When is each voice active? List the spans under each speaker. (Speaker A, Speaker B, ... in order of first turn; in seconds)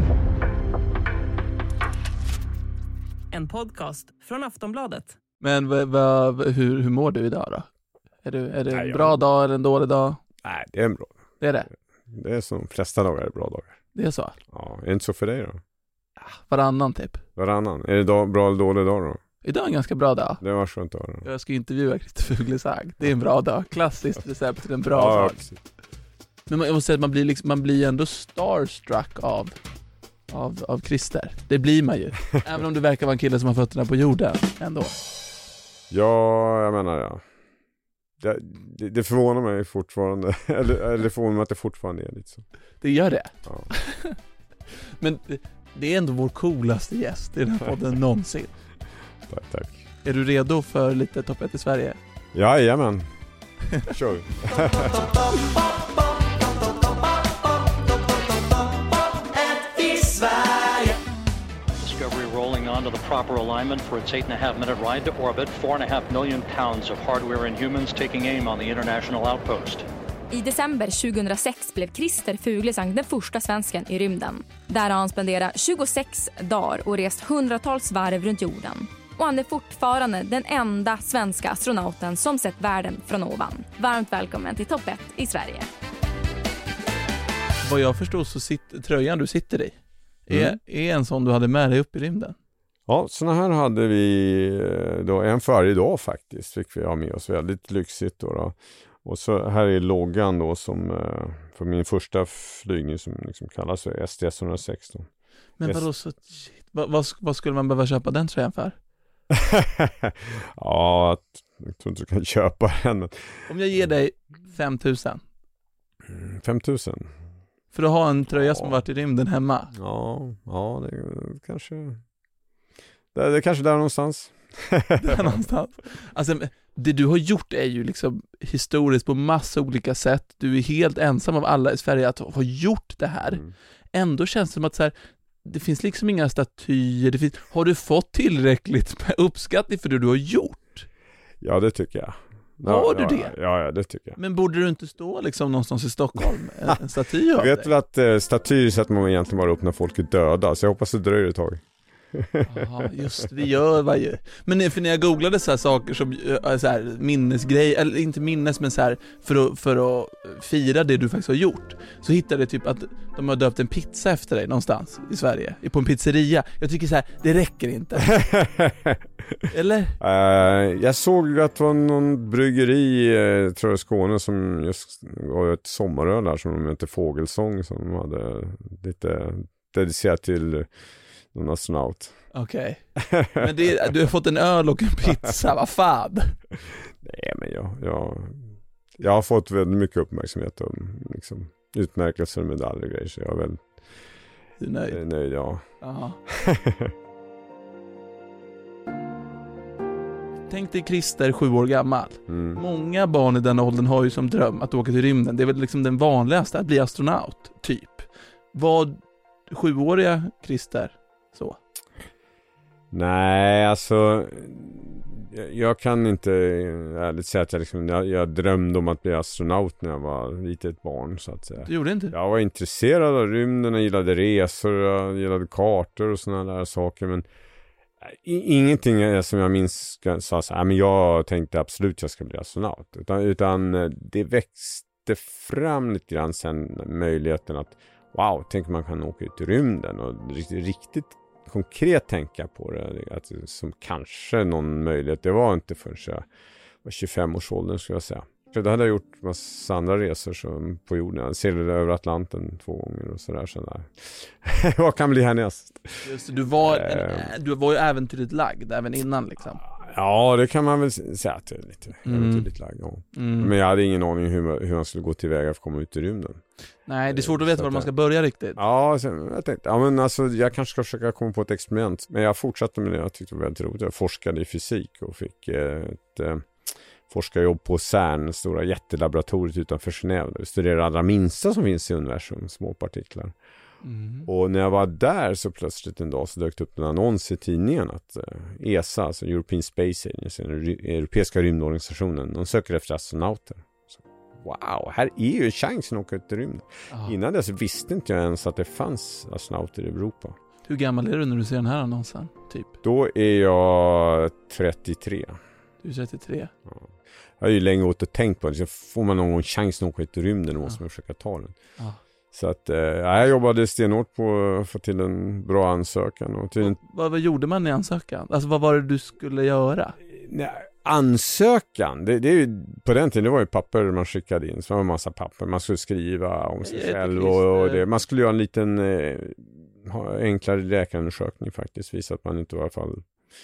Speaker A: 3.3-5.2, 59.3-61.0
Speaker B: 5.4-7.7, 8.2-10.2, 11.4-11.7, 13.9-14.3, 16.2-17.2, 19.4-20.4, 21.2-25.4, 26.5-29.6, 30.3-34.9, 42.8-44.2, 45.0-48.5, 50.0-52.0, 87.6-92.3, 105.6-108.8, 113.5-115.2, 117.7-119.7, 125.0-133.4, 133.9-140.9, 142.6-143.3, 144.2-147.7, 152.5-168.2, 169.5-170.0, 182.3-186.4, 194.6-195.0, 195.8-196.2, 200.5-211.6, 221.6-222.1, 256.0-259.6, 262.1-262.5, 263.1-263.5, 266.9-268.6, 283.8-284.3, 296.9-297.1, 300.7-302.7, 305.8-306.5, 316.6-320.0, 326.6-327.8
Speaker C: 8.7-9.2, 10.4-11.2, 12.1-13.8, 14.5-15.6, 17.4-19.2, 20.4-21.3, 24.9-25.6, 35.9-37.2, 38.2-42.4, 49.3-49.8, 52.3-53.1, 53.8-55.1, 90.3-90.6, 92.9-105.1, 109.3-113.9, 116.0-117.1, 118.3-118.8, 119.7-122.0, 123.1-125.4, 133.3-133.5, 141.4-144.2, 147.3-153.1, 168.1-169.4, 170.0-180.7, 181.3-182.2, 183.0-183.5, 187.0-193.8, 194.9-195.6, 196.3-196.9, 202.3-202.6, 212.9-227.2, 228.0-246.3, 246.8-257.3, 259.6-266.4, 267.1-267.9, 268.5-283.4, 284.2-300.4, 302.8-305.4, 306.7-311.6, 312.3-316.8, 320.1-333.1
Speaker D: 61.8-69.9
Speaker E: 70.3-85.7